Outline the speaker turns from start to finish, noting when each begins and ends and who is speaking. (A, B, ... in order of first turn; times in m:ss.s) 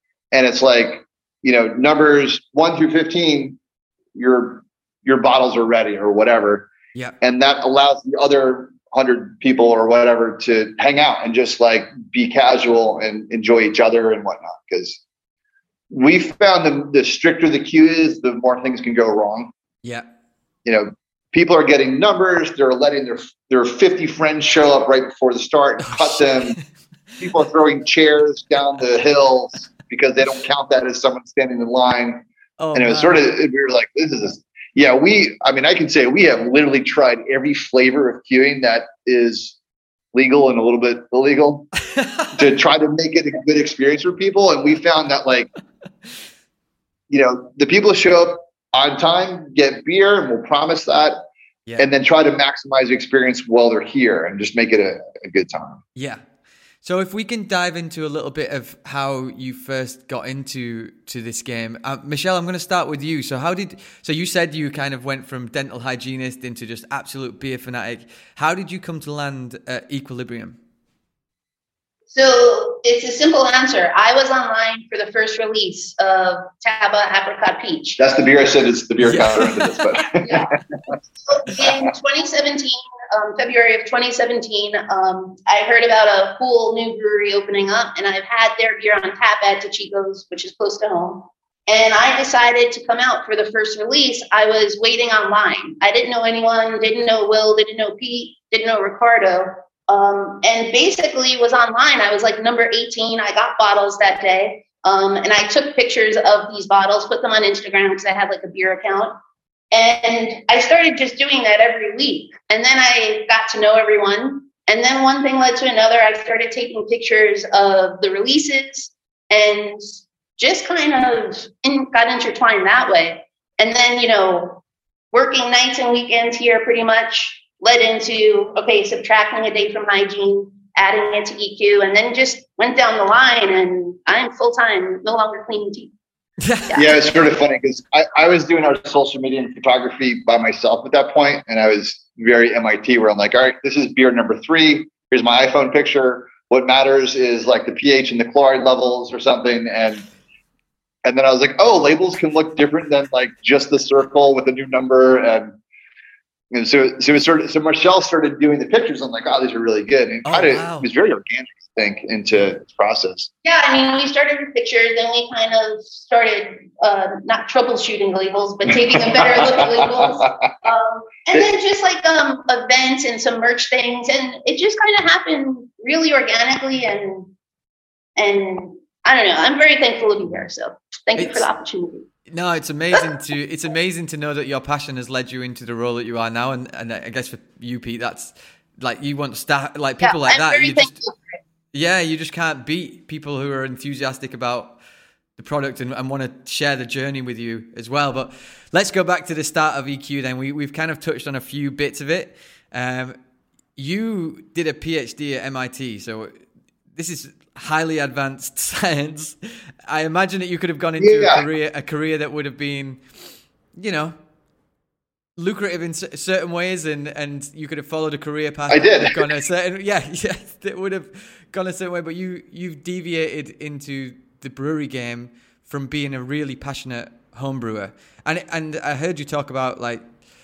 0:00.3-0:03.6 A
0:04.1-0:06.7 A
0:07.2-0:15.0 A
0:15.9-0:19.5 A
0:20.6-0:26.6 A
0:25.9-0:26.6 B
0:27.2-0:39.6 A
0:32.6-0:33.3 B
0:40.1-0:41.7 A
0:41.9-0:42.4 B
0:42.3-0:45.5 A
0:47.1-0:51.2 A
0:51.8-0:55.8 A
0:56.0-0:56.2 B
0:56.8-1:10.6 B
1:12.1-1:18.0 C
1:18.0-1:20.9 A
1:19.0-1:19.8 B
1:20.2-1:20.5 C
1:21.3-1:49.1 C
1:21.6-1:21.9 A
1:49.7-2:15.9 C
2:16.4-2:17.1 B
2:16.7-2:30.0 A
2:31.0-2:35.6 A
2:36.5-2:43.3 A
2:40.2-2:40.9 B
2:43.4-2:57.3 C
2:48.9-2:50.5 A
2:58.2-3:02.1 C
3:01.2-3:01.4 B
3:02.3-3:11.0 B
3:10.0-3:11.2 C
3:11.7-3:14.8 B
3:15.4-3:23.2 B
3:23.8-3:26.3 B
3:26.9-3:33.0 B
3:31.0-3:31.4 A
3:33.8-3:34.1 B
3:35.4-3:50.1 B
3:38.7-3:39.4 A